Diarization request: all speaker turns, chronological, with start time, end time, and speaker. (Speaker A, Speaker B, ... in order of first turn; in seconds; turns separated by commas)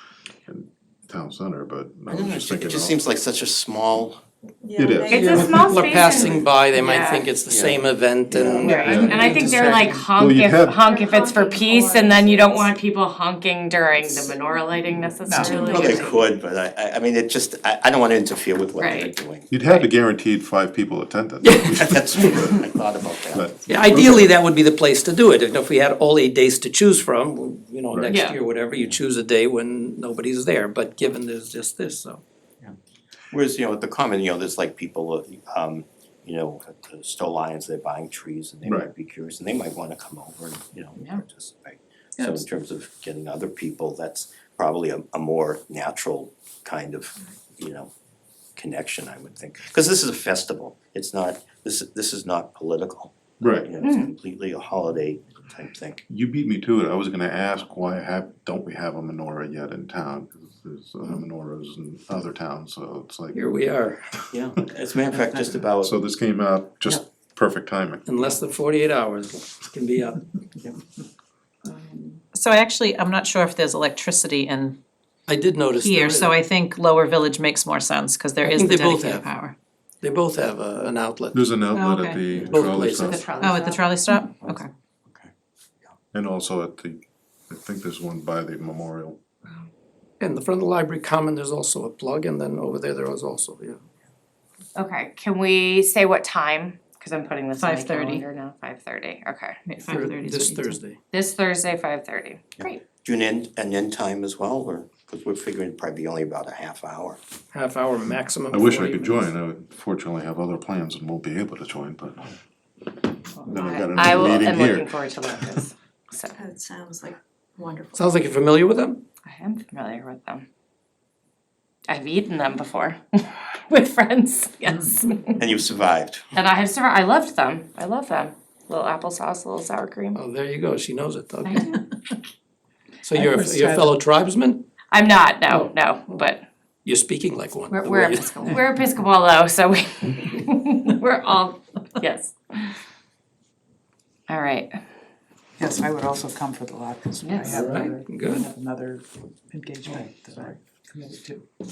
Speaker A: 0.5-3.0, Speaker B: 2.1-4.2, Speaker C: 4.6-6.3, Speaker A: 4.8-5.3, Speaker D: 5.0-7.3, Speaker E: 5.1-8.9, Speaker B: 7.5-8.8, Speaker D: 8.6-16.2, Speaker F: 8.6-10.1, Speaker A: 8.9-9.5, Speaker A: 10.1-10.8, Speaker C: 10.9-12.4, Speaker F: 15.2-16.1, Speaker C: 15.4-15.8, Speaker B: 15.6-19.5, Speaker D: 18.8-19.1, Speaker A: 19.5-22.6, Speaker B: 21.5-23.5, Speaker A: 23.3-24.3, Speaker E: 23.7-32.2, Speaker D: 28.1-28.4, Speaker B: 33.3-47.9, Speaker B: 48.5-56.0, Speaker A: 53.4-53.7, Speaker D: 53.8-54.1, Speaker A: 56.1-63.5, Speaker E: 63.3-64.0, Speaker B: 64.3-65.9, Speaker A: 65.8-68.0, Speaker E: 68.1-70.8, Speaker E: 71.6-72.2, Speaker G: 72.3-74.8, Speaker E: 75.3-76.3, Speaker G: 75.8-79.5, Speaker E: 78.4-79.3, Speaker E: 80.0-81.4, Speaker A: 81.3-83.3, Speaker G: 81.7-82.2, Speaker E: 82.4-83.2, Speaker D: 82.7-83.9, Speaker G: 83.4-84.7, Speaker A: 86.1-89.2, Speaker E: 90.2-93.8, Speaker D: 94.7-99.6, Speaker G: 97.6-98.2, Speaker G: 99.7-100.8, Speaker E: 99.9-101.0, Speaker D: 101.1-102.8, Speaker B: 102.6-107.2, Speaker E: 107.5-109.3, Speaker A: 108.5-112.3, Speaker A: 113.4-115.6, Speaker D: 113.5-116.4, Speaker C: 116.4-118.2, Speaker E: 118.0-119.0, Speaker D: 119.2-120.5, Speaker D: 121.9-125.4, Speaker B: 125.4-126.3, Speaker D: 126.3-130.2, Speaker E: 130.1-131.6, Speaker D: 131.4-131.8, Speaker E: 133.0-134.6, Speaker F: 133.1-134.0, Speaker D: 134.9-136.4, Speaker E: 136.8-138.3, Speaker D: 137.7-142.7, Speaker D: 144.3-144.8, Speaker F: 145.6-151.5, Speaker D: 147.2-147.6, Speaker E: 147.5-148.4